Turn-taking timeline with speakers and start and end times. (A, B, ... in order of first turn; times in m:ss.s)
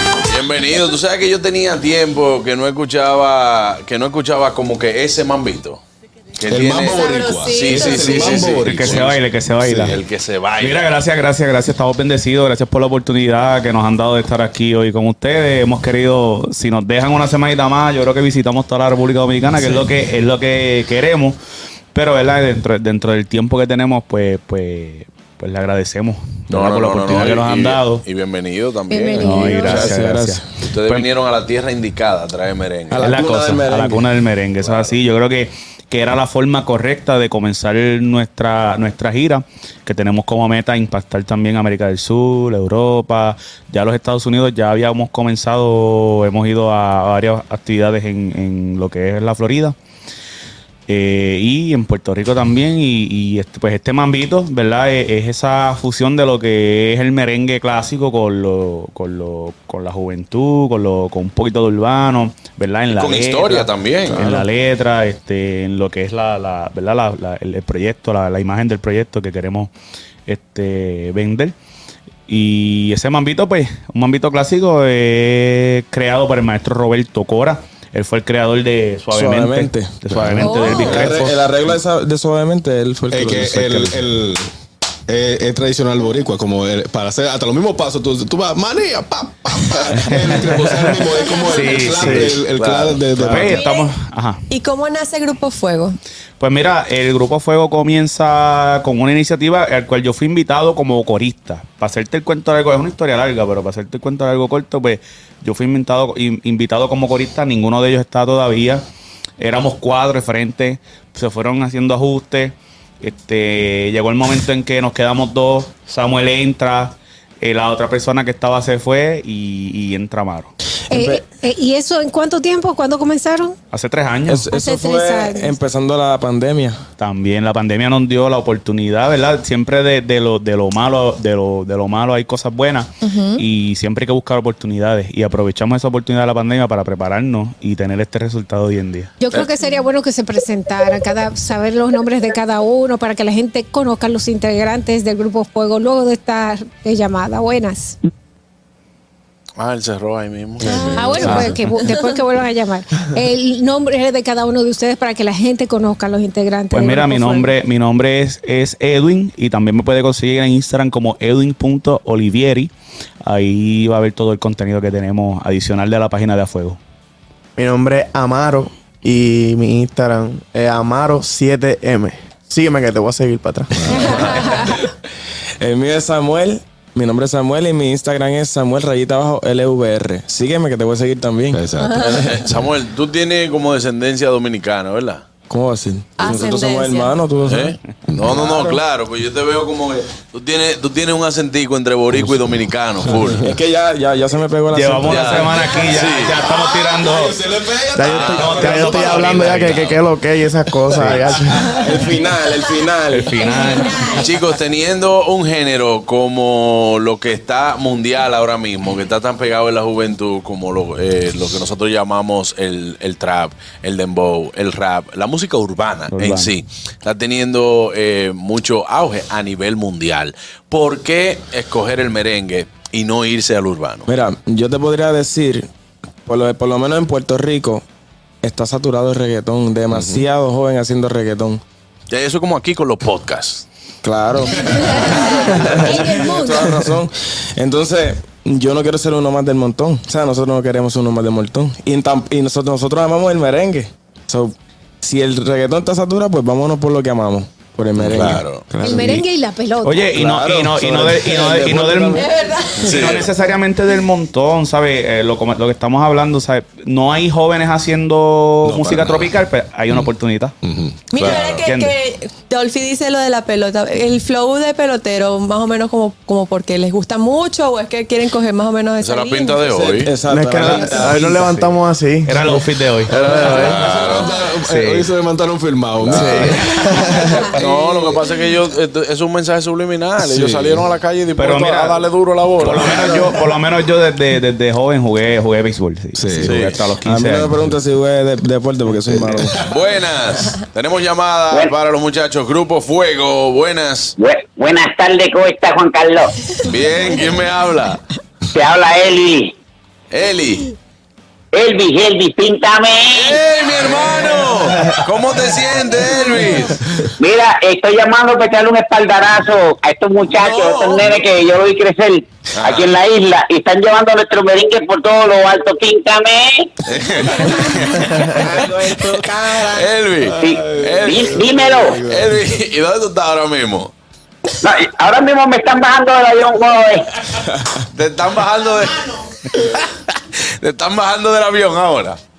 0:00.2-0:05.8 A
0:06.4-0:10.9 A
0:06.5-0:09.1 B
0:06.9-0:08.3 C
0:08.6-0:10.0 D
0:09.6-0:09.9 B
0:10.6-0:21.4 D
0:21.9-0:28.0 D
0:26.5-0:30.0 A
0:28.9-0:29.3 E
0:29.2-0:31.1 D
0:29.6-0:30.4 F
0:30.7-0:33.2 A
0:32.9-0:34.1 F
0:33.0-0:49.8 D
0:34.6-0:35.0 A
0:50.9-1:09.7 D
1:02.9-1:04.3 A
1:10.2-1:11.5 D
1:12.3-1:21.4 D
1:19.1-1:19.9 F
1:20.1-1:21.2 B
1:20.4-1:21.1 C
1:20.9-1:24.1 F
1:23.1-1:24.5 B
1:25.1-1:33.6 B
1:29.9-1:30.4 D
1:31.4-1:32.3 D
1:32.0-1:32.3 G
1:32.5-1:33.0 A
1:33.2-1:34.4 D
1:33.5-1:33.9 C
1:34.5-1:36.0 C
1:36.4-1:48.8 D
1:49.4-2:00.5 D
2:00.9-2:03.5 E
2:00.9-2:01.2 F
2:03.7-2:04.5 D
2:04.3-2:06.8 F
2:04.5-2:05.6 E
2:07.0-2:19.1 D
2:13.0-2:13.4 E
2:19.2-2:28.0 E
2:29.6-2:31.4 A
2:30.7-2:31.5 C
2:30.9-2:31.4 G
2:30.9-2:37.5 E
2:31.2-2:31.8 D
2:36.7-2:42.7 D
2:43.2-2:46.8 D
2:47.6-2:54.5 G
2:53.8-2:54.6 B
2:53.9-2:54.7 E
2:55.6-3:01.7 F
3:01.5-3:02.2 B
3:01.8-3:02.1 C
3:02.0-3:05.2 A
3:05.5-3:07.7 F
3:06.2-3:07.2 C
3:07.4-3:13.5 A
3:08.1-3:08.5 B
3:12.2-3:13.4 B
3:13.4-3:15.6 F
3:14.7-3:17.3 D
3:15.0-3:16.4 A
3:16.4-3:19.9 B
3:18.0-3:21.8 G
3:18.1-3:18.5 A
3:18.2-3:19.9 D
3:19.0-3:19.8 A
3:21.0-3:21.7 B
3:21.8-3:23.4 F
3:23.1-3:24.1 D
3:23.4-3:24.1 E
3:24.2-3:44.1 A
3:36.1-3:36.5 D
3:44.1-3:45.7 F
3:46.3-3:47.8 F
3:48.4-3:51.6 F
3:49.9-3:50.2 B
3:52.1-3:53.6 A
3:54.0-4:09.2 F
3:54.7-3:56.8 E
4:08.0-4:08.6 A
4:08.8-4:10.1 E
4:08.9-4:09.2 D
4:09.8-4:12.2 D
4:10.1-4:12.3 F
4:12.2-4:12.9 C
4:12.8-4:13.2 F
4:12.8-4:13.3 A
4:12.8-4:20.5 D
4:18.6-4:20.1 B
4:20.6-4:21.3 B
4:21.1-4:29.7 C
4:21.6-4:21.9 D
4:29.0-4:30.1 A
4:29.6-4:31.2 F
4:30.3-4:33.8 G
4:30.8-4:33.8 D
4:33.1-4:34.3 A
4:33.5-4:38.0 B
4:34.6-4:35.1 D
4:36.0-4:36.5 A
4:36.1-4:37.5 G
4:37.5-4:43.2 A
4:40.2-4:40.8 B
4:41.4-4:42.0 D
4:42.6-4:47.6 D
4:42.9-4:43.2 F
4:46.1-4:46.7 B
4:46.4-4:46.8 A
4:47.0-4:49.6 F
4:49.1-4:49.5 B
4:49.6-4:54.1 A
4:54.2-4:56.3 H
4:56.6-4:58.0 A
4:58.5-4:59.5 H
5:00.1-5:00.7 A
5:01.5-5:03.4 H
5:03.1-5:06.9 A
5:07.2-5:16.7 H
5:10.3-5:11.2 A
5:12.5-5:12.9 A
5:16.8-5:18.6 A
5:19.5-5:23.9 A
5:20.4-5:22.0 H
5:24.6-5:27.0 H
5:27.9-5:29.1 A
5:30.4-5:32.2 A